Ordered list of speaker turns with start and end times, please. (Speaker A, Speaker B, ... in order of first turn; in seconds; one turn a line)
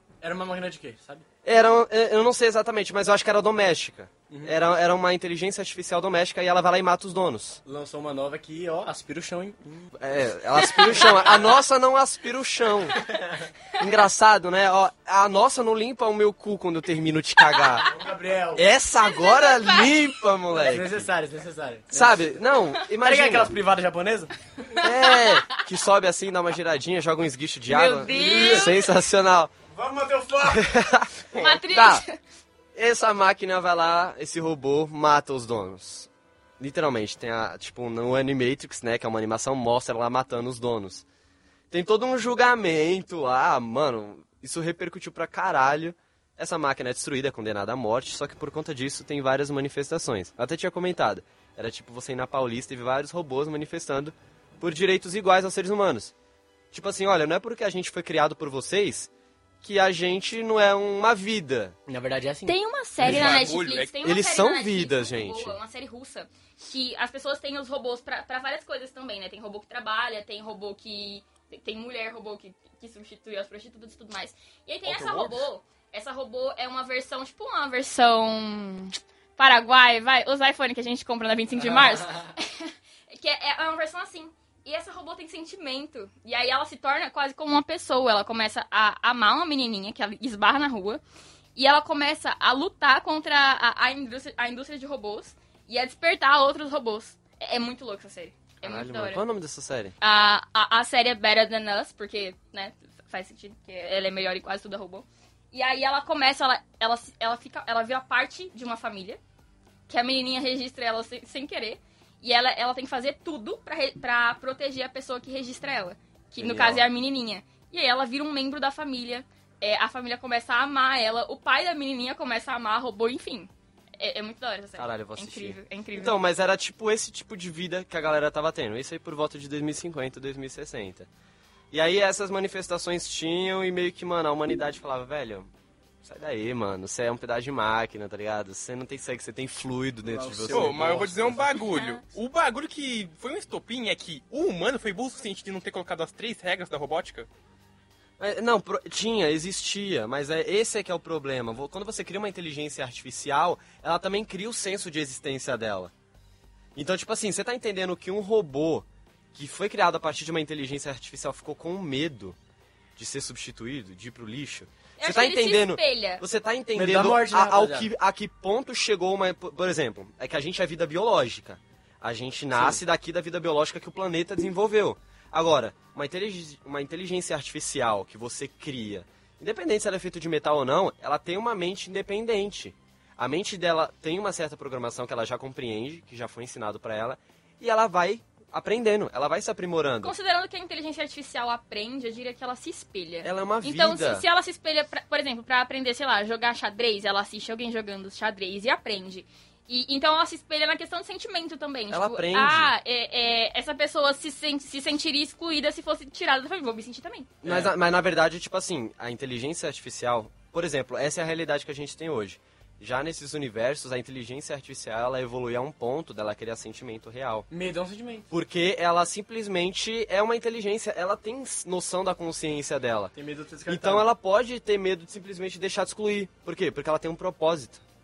Speaker A: 0.2-1.2
Speaker B: 1.4-7.6
Speaker A: 4.3-4.5
Speaker A: 7.7-9.9
Speaker B: 10.0-13.0
Speaker A: 10.6-11.3
Speaker A: 12.9-13.5
Speaker B: 13.8-17.9
Speaker A: 17.8-18.6
Speaker B: 18.5-21.1
Speaker C: 19.0-20.1
Speaker A: 20.6-22.4
Speaker B: 21.9-23.5
Speaker A: 23.0-24.3
Speaker B: 24.8-29.5
Speaker C: 24.8-25.6
Speaker C: 27.7-28.8
Speaker A: 28.1-28.6
Speaker A: 29.7-30.7
Speaker B: 30.4-32.0
Speaker C: 31.3-32.2
Speaker B: 32.7-41.0
Speaker B: 41.7-56.1
Speaker B: 56.7-59.1
Speaker B: 59.6-61.8
Speaker A: 61.9-63.5
Speaker C: 62.5-91.0
Speaker D: 63.0-63.9
Speaker B: 64.0-65.6
Speaker D: 74.8-75.4
Speaker C: 91.5-99.2
Speaker B: 98.6-100.0
Speaker C: 100.0-109.2
Speaker C: 109.9-126.2
Speaker B: 116.4-116.8
Speaker B: 124.8-131.1
Speaker B: 131.7-135.5
Speaker B: 136.0-141.0
Speaker A: 140.0-141.5
Speaker D: 140.5-147.3
Speaker C: 141.7-142.0
Speaker B: 148.2-155.9
Speaker B: 156.7-162.4
Speaker B: 162.9-190.1
Speaker C: 165.0-166.2
Speaker A: 166.7-167.9
Speaker A: 172.5-172.8
Speaker C: 190.0-207.3
Speaker B: 193.2-194.2
Speaker B: 201.9-202.7
Speaker B: 207.4-217.5
Speaker A: 207.4-207.7
Speaker A: 217.5-218.3
Speaker B: 218.3-223.1
Speaker A: 223.1-224.1
Speaker B: 223.7-227.8